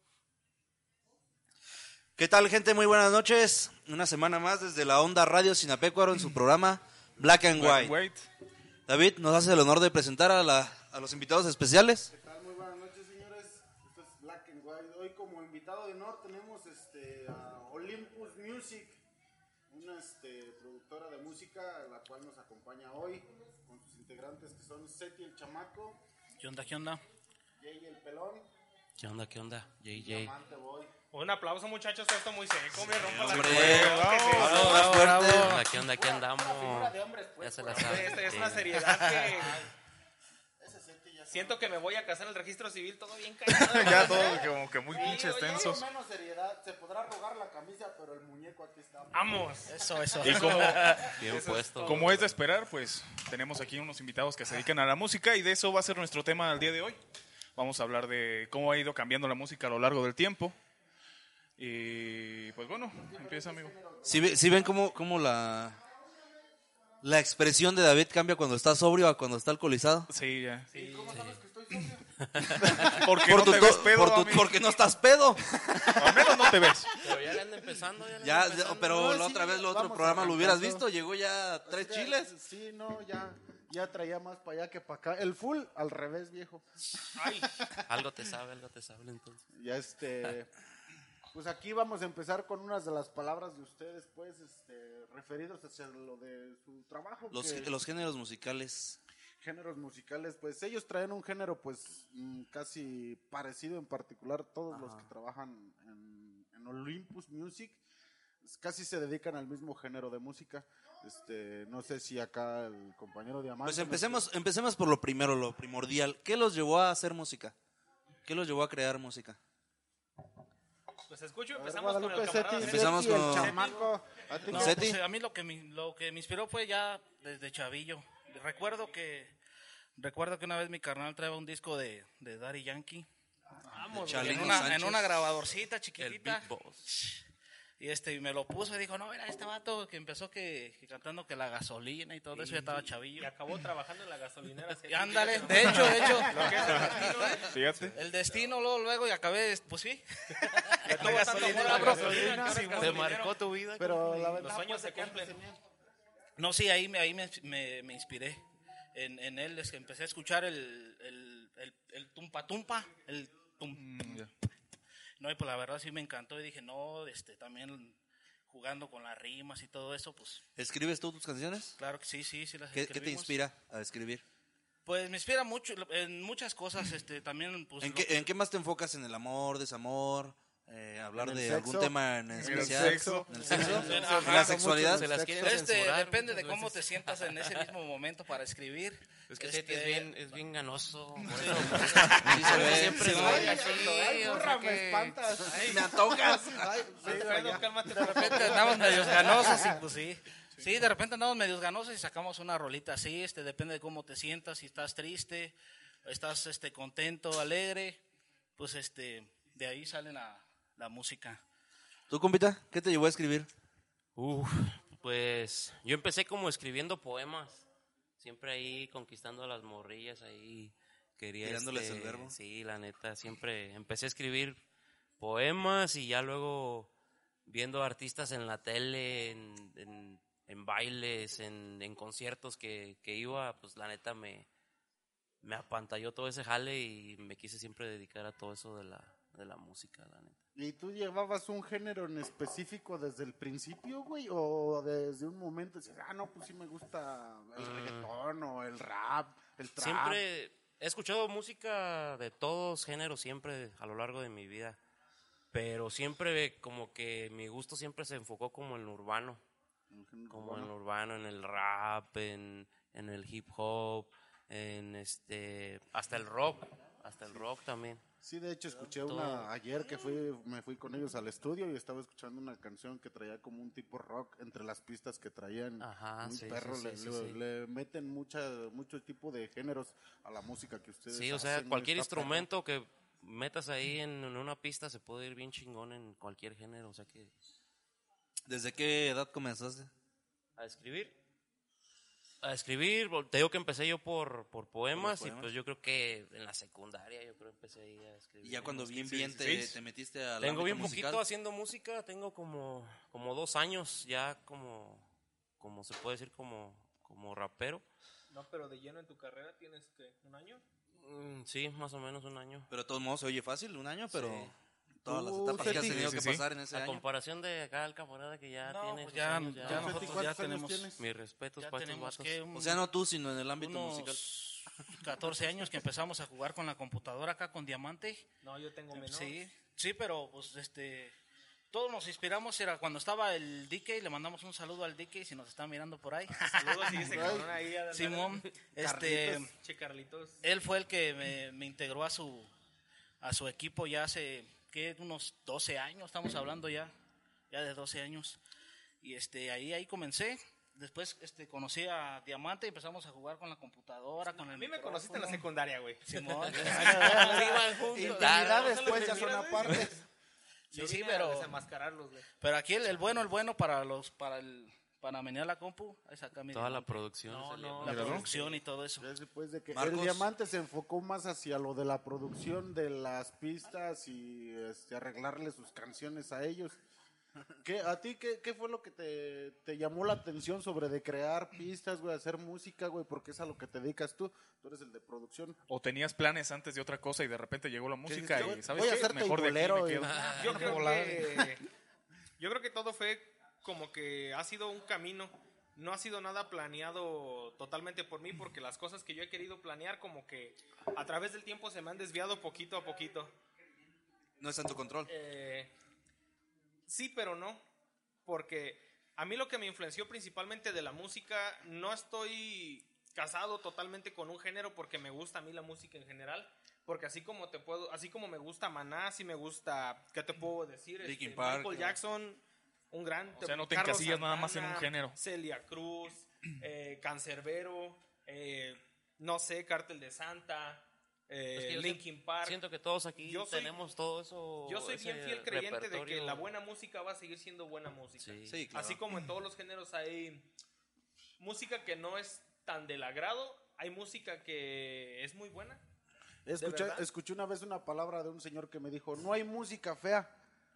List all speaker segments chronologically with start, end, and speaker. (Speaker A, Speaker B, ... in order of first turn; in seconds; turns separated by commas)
Speaker A: 2.2-8.0, Speaker B: 7.5-8.2, Speaker A: 8.9-12.1, Speaker C: 12.1-19.0, Speaker C: 19.7-26.0, Speaker D: 26.4-27.0, Speaker C: 27.6-28.5, Speaker E: 29.0-30.3, Speaker C: 29.9-30.9, Speaker F: 31.1-34.9, Speaker A: 32.8-35.6, Speaker B: 33.2-34.7, Speaker D: 34.2-35.7, Speaker E: 35.1-39.0, Speaker C: 35.7-38.4, Speaker F: 37.7-39.6, Speaker D: 38.9-39.3, Speaker C: 40.6-41.7, Speaker F: 41.3-45.8, Speaker B: 43.5-45.8, Speaker C: 44.9-49.6, Speaker F: 49.1-52.2, Speaker D: 49.6-51.1, Speaker B: 50.2-51.2, Speaker E: 51.1-52.3, Speaker B: 51.8-57.0, Speaker B: 57.5-60.5, Speaker B: 61.6-63.7, Speaker C: 63.1-64.7, Speaker A: 64.0-65.8, Speaker A: 67.0-70.1, Speaker B: 70.1-70.7, Speaker C: 70.7-73.0, Speaker F: 70.7-71.1, Speaker E: 70.8-71.4, Speaker B: 72.7-74.5, Speaker A: 72.8-76.5, Speaker B: 76.0-76.9, Speaker E: 77.0-79.0, Speaker A: 78.2-82.3, Speaker C: 78.6-80.9, Speaker C: 81.7-86.7, Speaker F: 87.2-87.6, Speaker E: 87.8-89.4, Speaker C: 89.5-90.5, Speaker C: 91.3-97.7, Speaker A: 97.3-99.0, Speaker C: 99.4-107.8, Speaker E: 104.7-105.0, Speaker C: 108.4-114.3, Speaker A: 113.6-117.5, Speaker A: 118.2-119.4, Speaker F: 121.1-123.9, Speaker C: 121.5-124.8, Speaker A: 122.6-123.5, Speaker D: 124.4-129.3, Speaker A: 124.5-125.0, Speaker D: 130.0-133.1, Speaker D: 133.7-137.2, Speaker F: 133.7-134.7, Speaker A: 133.9-135.4, Speaker E: 136.0-136.9, Speaker D: 137.8-143.3, Speaker F: 142.4-147.6, Speaker D: 144.8-152.9, Speaker B: 146.6-147.9, Speaker C: 146.7-147.0, Speaker F: 150.8-153.4, Speaker C: 151.1-152.9, Speaker E: 151.4-154.5, Speaker C: 153.8-155.6, Speaker F: 154.4-155.4, Speaker D: 156.4-164.3, Speaker B: 163.8-164.3, Speaker D: 165.2-170.4, Speaker A: 170.6-171.8, Speaker D: 171.8-173.4, Speaker A: 172.7-174.2, Speaker D: 174.8-178.2, Speaker A: 177.8-185.1, Speaker C: 181.1-185.6, Speaker B: 182.4-183.4, Speaker E: 183.3-187.7, Speaker D: 183.4-184.6, Speaker D: 185.4-190.3, Speaker E: 189.3-195.2, Speaker D: 191.4-193.5, Speaker B: 191.8-192.1, Speaker A: 192.2-193.6, Speaker C: 193.0-199.8, Speaker F: 195.5-195.8, Speaker A: 195.5-196.9, Speaker F: 197.0-199.6, Speaker D: 197.8-208.0, Speaker D: 208.6-211.4, Speaker A: 212.1-213.5, Speaker E: 214.2-217.7, Speaker E: 218.2-224.6, Speaker A: 221.4-222.3, Speaker E: 225.2-226.9, Speaker E: 227.4-234.5, Speaker E: 235.4-240.4, Speaker C: 240.5-250.2, Speaker E: 247.6-248.1, Speaker E: 249.8-254.8, Speaker E: 255.5-259.4, Speaker C: 259.9-260.7, Speaker E: 260.3-268.0, Speaker C: 268.2-282.5, Speaker E: 268.8-269.5, Speaker E: 275.8-277.4, Speaker E: 281.1-287.3, Speaker A: 288.5-289.9, Speaker E: 290.6-291.1, Speaker E: 292.4-299.5, Speaker A: 294.9-295.5, Speaker A: 298.4-301.2, Speaker B: 299.1-299.8, Speaker E: 300.4-305.1, Speaker E: 305.6-307.8, Speaker F: 308.3-310.6, Speaker E: 311.0-312.7, Speaker A: 312.7-317.0, Speaker E: 314.1-314.5, Speaker C: 315.1-316.1, Speaker B: 315.6-316.4, Speaker E: 316.7-320.3, Speaker D: 318.7-320.9, Speaker C: 319.6-321.0, Speaker E: 321.0-322.4, Speaker D: 321.6-322.9, Speaker A: 322.5-324.2, Speaker D: 323.6-328.2, Speaker F: 328.4-329.4, Speaker D: 328.9-331.1, Speaker D: 331.7-339.5, Speaker F: 336.3-338.5, Speaker C: 337.1-337.5, Speaker C: 338.8-339.4, Speaker F: 339.4-340.4, Speaker D: 340.4-342.5, Speaker D: 343.2-346.9, Speaker D: 347.5-348.4, Speaker D: 349.0-355.4, Speaker F: 354.4-356.1, Speaker D: 356.0-357.6, Speaker E: 356.5-359.1, Speaker C: 356.8-359.9, Speaker F: 358.3-360.0, Speaker D: 360.7-361.6, Speaker F: 360.7-362.3, Speaker D: 362.4-367.0, Speaker E: 366.5-368.4, Speaker F: 367.3-368.5, Speaker D: 367.8-369.1, Speaker B: 367.8-368.3, Speaker C: 369.0-376.8, Speaker A: 369.7-370.2, Speaker C: 377.6-385.6, Speaker B: 385.7-390.8, Speaker C: 388.1-391.6, Speaker A: 388.2-388.5, Speaker F: 388.4-389.0, Speaker E: 390.0-390.9, Speaker F: 390.4-391.6, Speaker F: 392.4-403.3, Speaker A: 404.4-405.1, Speaker F: 405.1-405.7, Speaker F: 406.9-407.6, Speaker F: 408.2-432.6, Speaker A: 421.0-422.0, Speaker B: 423.4-425.2, Speaker E: 431.5-436.5, Speaker F: 433.2-433.7, Speaker F: 434.7-440.5, Speaker E: 438.2-438.6, Speaker A: 438.5-439.0, Speaker F: 441.4-445.8, Speaker C: 446.4-450.3, Speaker F: 446.6-447.1